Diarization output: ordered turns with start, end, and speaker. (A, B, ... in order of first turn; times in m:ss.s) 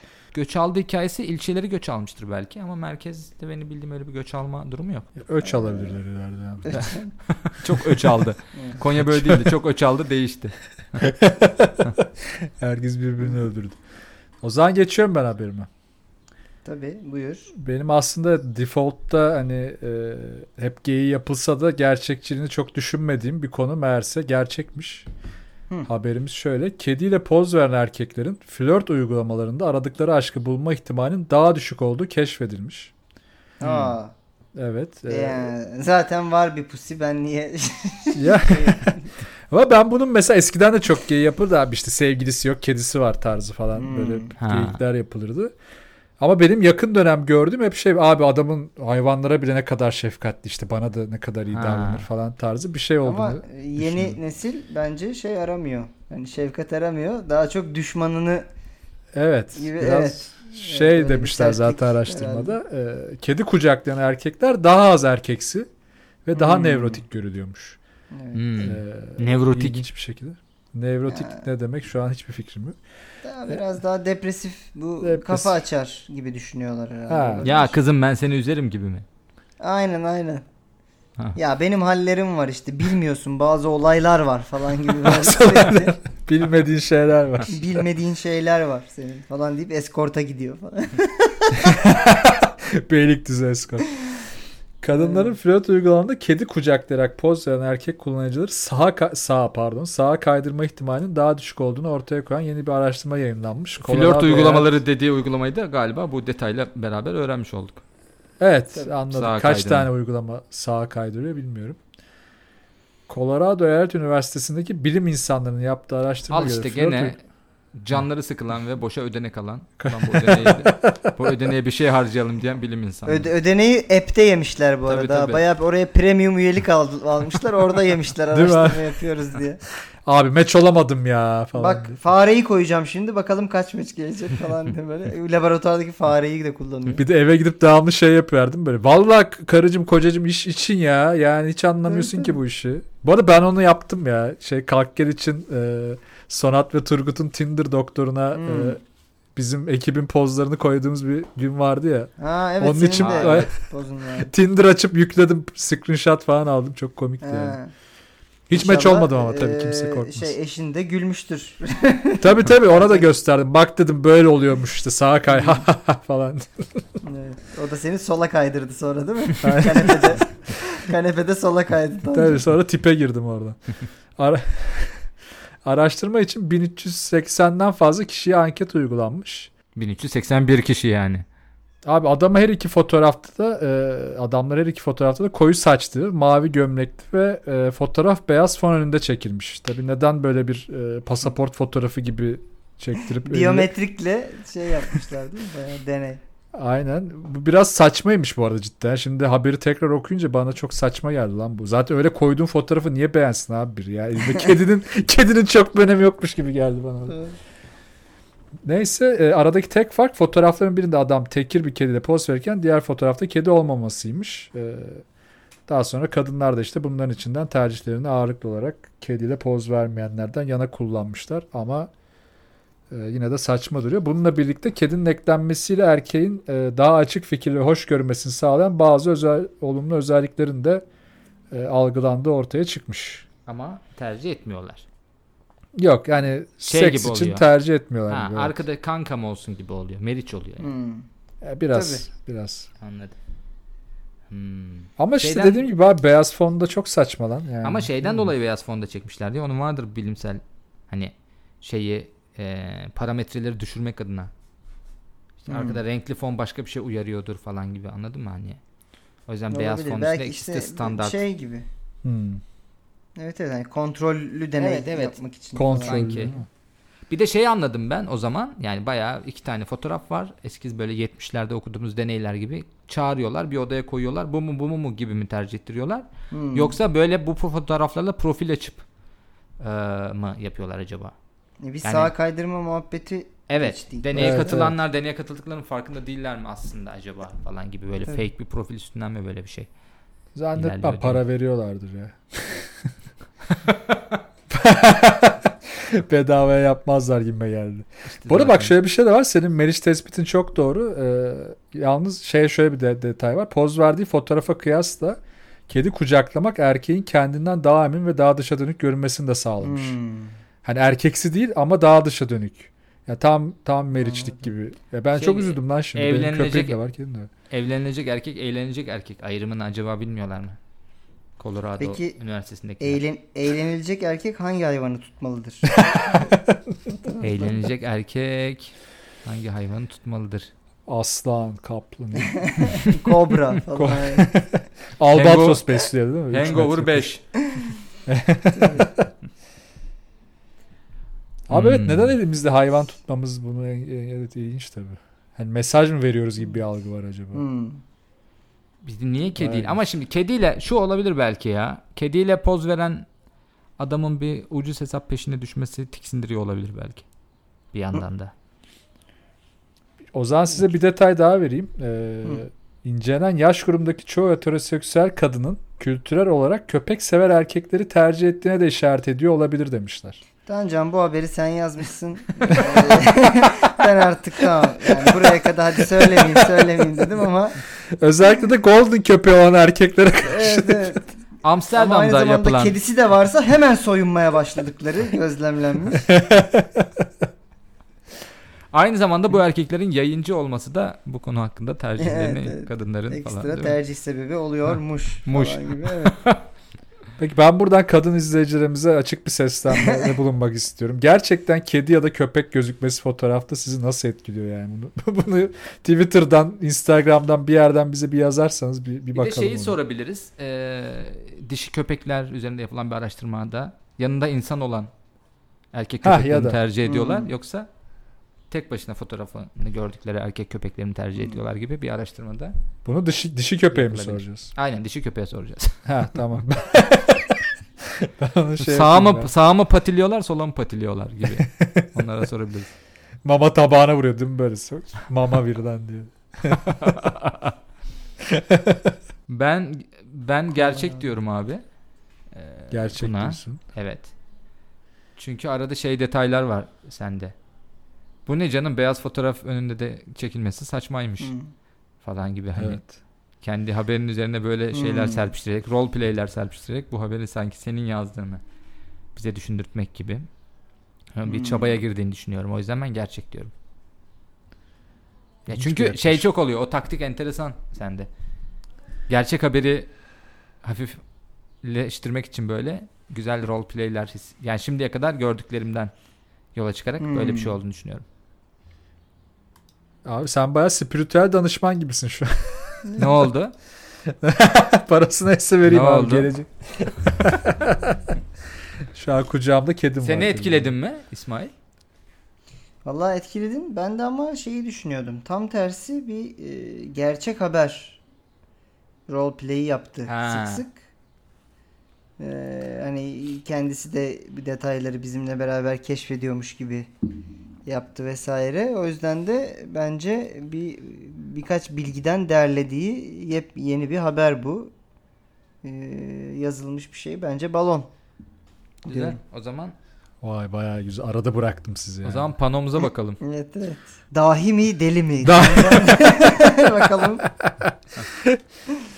0:00.3-0:05.1 A
0:05.2-0:06.9 B
0:05.5-0:05.9 C
0:06.6-0:07.1 C
0:06.7-0:11.1 A
0:07.7-0:08.3 B
0:09.0-0:09.5 B
0:11.0-0:13.8 B
0:14.4-0:15.7 B
0:16.6-0:17.5 C
0:17.5-0:25.1 B
0:25.9-0:32.9 B
0:33.6-0:34.1 C
0:33.6-0:34.0 A
0:34.6-0:35.5 B
0:35.1-0:39.1 C
0:38.2-0:39.0 B
0:39.5-0:45.5 B
0:43.8-0:44.3 C
0:44.4-0:44.8 A
0:46.2-0:54.2 B
0:51.5-0:52.1 A
0:53.0-0:58.5 C
0:59.1-1:05.7 B
0:59.6-1:02.6 C
1:06.2-1:07.8 B
1:06.4-1:07.0 C
1:08.1-1:08.4 C
1:08.3-1:09.8 A
1:08.6-1:12.8 B
1:11.1-1:11.5 C
1:13.2-1:17.8 C
1:15.0-1:15.6 B
1:17.1-1:17.5 B
1:17.4-1:19.0 A
1:19.6-1:20.4 C
1:21.4-1:26.0 C
1:25.0-1:27.8 B
1:27.5-1:31.7 C
1:31.6-1:34.0 B
1:34.8-1:44.8 B
1:34.9-1:35.4 C
1:43.8-1:47.8 A
1:48.4-1:51.8 B
1:49.1-1:49.9 A
1:53.1-1:57.1 B
1:56.3-1:57.2 A
1:57.8-2:03.3 A
1:59.8-2:01.4 B
2:03.1-2:09.6 C
2:04.9-2:05.4 A
2:08.3-2:09.0 B
2:10.0-2:12.0 B
2:11.6-2:17.0 C
2:17.0-2:28.8 B
2:21.9-2:22.4 C
2:28.3-2:28.8 C
2:29.4-2:33.5 B
2:32.2-2:34.3 C
2:33.0-2:33.5 A
2:34.2-2:37.6 B
2:37.2-2:37.7 C
2:38.5-2:40.3 B
2:38.5-2:43.1 C
2:42.2-2:46.9 B
2:45.3-2:45.6 C
2:47.0-2:52.4 C
2:49.4-2:50.2 B
2:52.1-2:53.6 B
2:54.2-2:55.1 B
2:55.6-2:59.5 B
2:59.8-3:01.2 A
3:01.8-3:13.7 B
3:13.0-3:16.2 C
3:16.5-3:27.2 B
3:27.1-3:27.4 C
3:28.6-3:35.0 B
3:35.7-3:41.9 B
3:42.9-3:50.8 B
3:51.5-3:53.3 B
3:53.5-3:54.8 A
3:55.8-3:58.6 B
3:56.7-3:57.5 A
3:58.1-4:00.7 A
4:00.6-4:01.1 C
4:01.4-4:02.7 B
4:01.7-4:02.1 C
4:02.8-4:03.2 A
4:04.3-4:05.6 A
4:05.0-4:08.1 B
4:07.6-4:14.3 A
4:15.4-4:18.6 A
4:15.5-4:15.8 C
4:19.3-4:21.2 A
4:19.5-4:21.7 C
4:22.0-4:22.4 B
4:23.2-4:26.2 C
4:24.6-4:25.2 A
4:25.6-4:26.5 B
4:25.8-4:26.4 A
4:27.1-4:38.8 A
4:36.3-4:36.8 C
4:39.6-4:41.2 A
4:41.6-4:44.6 C
4:41.8-4:42.1 A
4:43.5-4:49.7 A
4:44.2-4:44.8 B
4:50.4-4:52.9 B
4:50.6-4:51.2 A
4:53.6-4:54.0 A
4:54.5-5:10.0 B
4:58.1-4:58.7 A
5:09.6-5:10.3 C
5:10.6-5:17.3 B
5:14.0-5:14.4 C
5:15.2-5:16.8 A
5:17.5-5:20.6 A
5:21.4-5:23.0 A
5:21.8-5:22.2 C
5:22.8-5:25.7 C
5:25.7-5:26.9 B
5:27.0-5:27.6 C
5:27.2-5:30.5 A
5:30.9-5:33.0 B
5:32.2-5:34.3 C
5:33.8-5:37.1 B
5:35.1-5:37.2 A
5:37.4-5:37.7 C
5:38.1-5:39.1 B
5:38.5-5:38.9 C
5:41.5-5:47.4 B
5:41.5-5:42.1 A
5:47.3-5:47.8 C
5:48.8-5:53.1 A
5:49.4-5:49.8 B
5:53.8-5:57.0 A
5:57.7-5:58.3 A
6:00.1-6:10.2 B
6:10.5-6:17.6 C
6:16.0-6:16.7 B
6:18.0-6:21.0 B
6:20.2-6:21.1 C
6:21.4-6:22.8 A
6:21.8-6:26.1 C
6:26.0-6:27.0 B
6:28.7-6:33.8 A
6:32.0-6:36.2 C
6:35.3-6:36.4 A
6:37.2-6:49.8 B
6:39.7-6:40.0 C
6:49.1-6:54.9 A
6:55.7-6:57.7 A
6:56.0-6:56.6 B
6:56.8-6:57.3 C
6:58.5-7:02.6 A
7:02.8-7:04.5 B
7:03.7-7:05.8 A
7:05.9-7:09.3 B
7:08.6-7:12.7 A
7:11.3-7:12.0 B
7:13.2-7:17.1 B
7:16.8-7:17.5 A
7:18.2-7:19.0 B
7:19.3-7:21.6 A
7:22.3-7:24.1 A
7:22.7-7:23.6 B
7:25.2-7:27.3 A
7:28.3-7:31.4 A
7:31.2-7:31.5 C
7:32.0-7:32.8 A
7:32.6-7:32.8 B
7:33.4-7:38.4 A
7:34.7-7:35.3 C
7:39.1-7:40.3 A
7:41.2-7:43.5 A
7:41.3-7:41.7 C
7:45.5-7:48.1 A
7:45.5-7:46.3 B
7:49.1-7:49.9 A
7:50.6-7:51.0 A
7:51.6-7:55.9 A
7:56.5-7:58.0 A
7:57.0-7:57.6 C
8:00.0-8:02.8 B
8:02.8-8:03.3 C
8:03.0-8:03.5 A
8:04.1-8:08.0 B
8:05.7-8:06.3 A
8:08.8-8:10.7 B
8:10.0-8:11.5 A
8:12.8-8:18.0 C
8:19.1-8:20.8 C
8:20.1-8:20.6 A
8:22.2-8:26.9 C
8:27.7-8:34.7 C
8:35.6-8:37.9 C
8:38.9-8:39.8 A
8:38.9-8:39.2 C
8:40.2-8:42.3 B
8:42.0-8:43.2 A
8:43.2-8:47.3 C
8:45.2-8:48.4 B